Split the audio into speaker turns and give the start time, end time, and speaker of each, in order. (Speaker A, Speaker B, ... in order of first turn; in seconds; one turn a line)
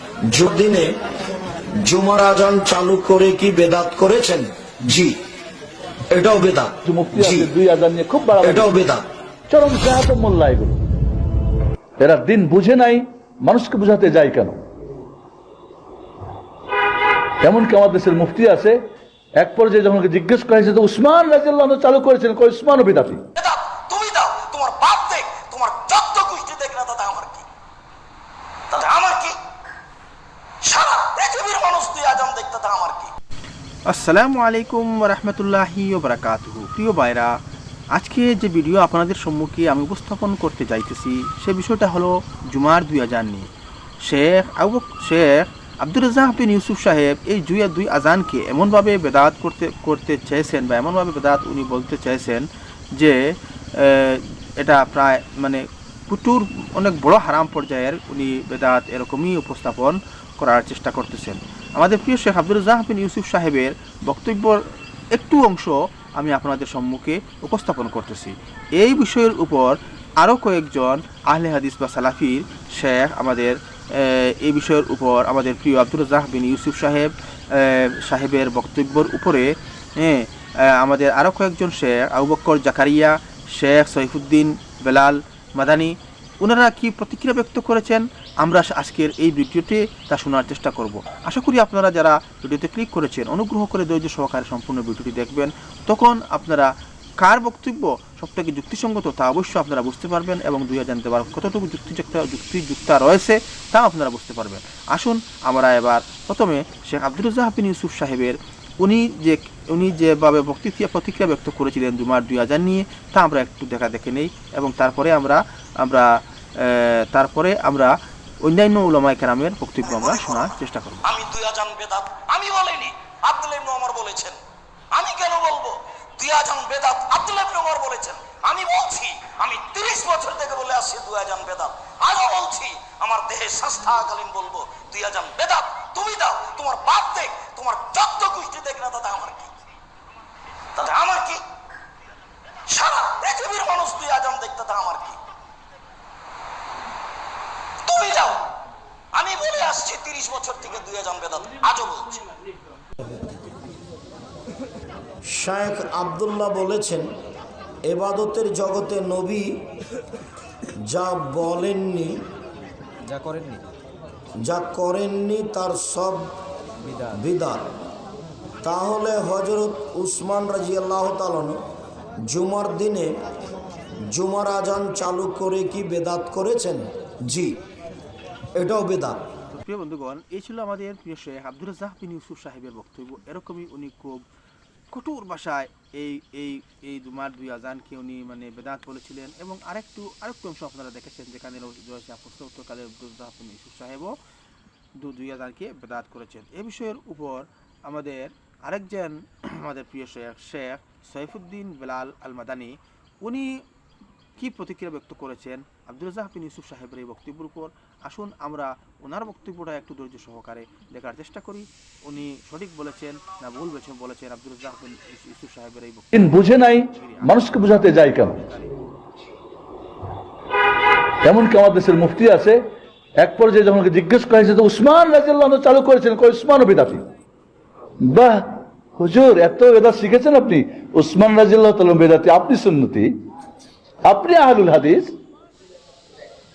Speaker A: 0.3-0.9
Speaker A: 1.8-5.2
Speaker A: 6.1-7.5
Speaker B: 6.8-8.7
Speaker A: 8.4-9.0
Speaker B: 9.5-10.8
Speaker B: 12.0-14.6
Speaker B: 17.4-18.8
Speaker B: 19.4-23.2
Speaker C: 23.4-27.4
Speaker C: 28.7-29.3
Speaker C: 30.6-33.1
Speaker D: 33.9-37.4
Speaker D: 37.9-43.5
Speaker D: 44.0-121.0
Speaker A: 121.2-122.8
Speaker C: 122.1-123.6
Speaker A: 123.4-124.3
Speaker A: 125.0-125.6
Speaker C: 125.0-125.7
Speaker C: 126.2-139.5
Speaker A: 126.4-126.8
Speaker A: 127.5-129.0
Speaker A: 131.5-134.3
Speaker A: 134.8-135.4
Speaker C: 140.8-141.3
Speaker C: 142.7-145.1
Speaker C: 147.9-148.3
Speaker C: 149.2-152.2
Speaker A: 155.2-157.1
Speaker A: 157.8-159.5
Speaker A: 160.8-162.2
Speaker A: 164.4-166.3
Speaker A: 167.0-167.7
Speaker A: 168.6-171.6
Speaker A: 172.3-173.2
Speaker A: 174.1-177.6
Speaker A: 178.6-179.2
Speaker D: 179.5-184.2
Speaker D: 184.9-194.2
Speaker D: 195.0-203.6
Speaker D: 204.4-218.8
Speaker B: 216.1-218.4
Speaker B: 221.2-222.6
Speaker B: 223.2-227.1
Speaker B: 228.0-233.2
Speaker B: 234.0-235.1